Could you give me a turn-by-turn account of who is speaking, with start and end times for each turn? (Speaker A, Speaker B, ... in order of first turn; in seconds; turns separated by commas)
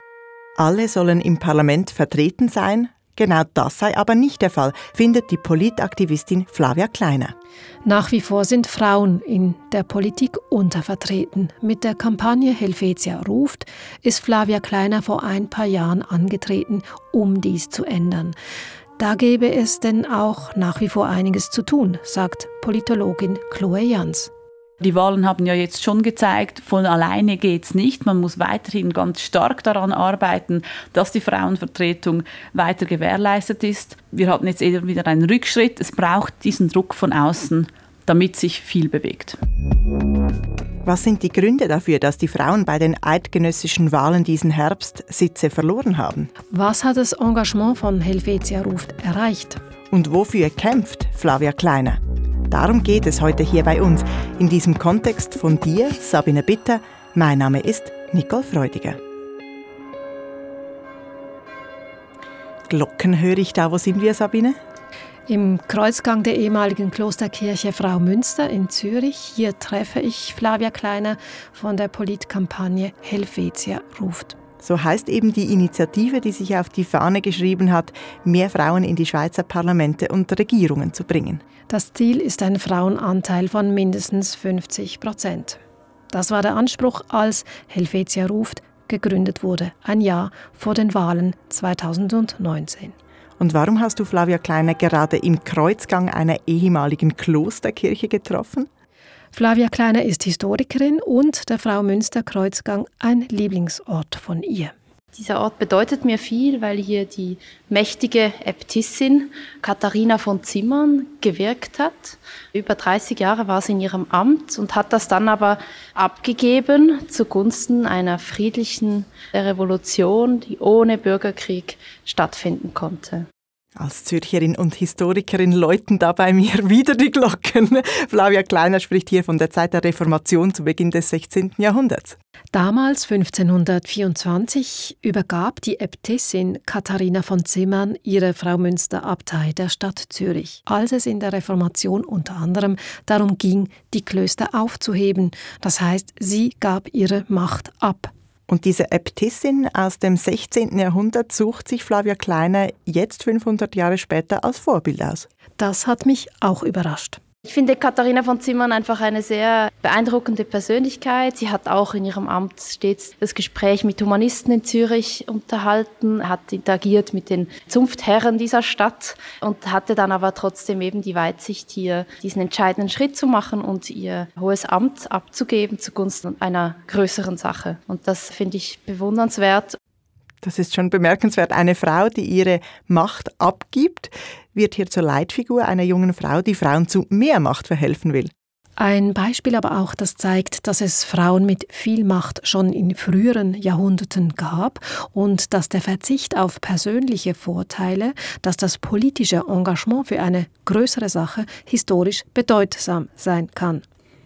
Speaker A: 0.6-7.3, Speaker B: 7.8-18.3, Speaker B: 19.0-24.3, Speaker C: 24.8-39.4, Speaker A: 40.8-46.3, Speaker B: 46.5-49.6, Speaker A: 49.9-59.0, Speaker A: 62.7-64.6, Speaker B: 65.3-74.4, Speaker A: 74.6-81.4, Speaker B: 81.7-85.6, Speaker B: 86.1-92.9, Speaker A: 93.4-98.7, Speaker B: 99.3-104.7, Speaker D: 105.1-123.2, Speaker A: 123.8-132.2, Speaker B: 132.5-148.1, Speaker A: 148.5-155.3, Speaker B: 155.6-157.2, Speaker D: 157.4-179.8, Speaker A: 180.4-188.3, Speaker B: 188.8-203.8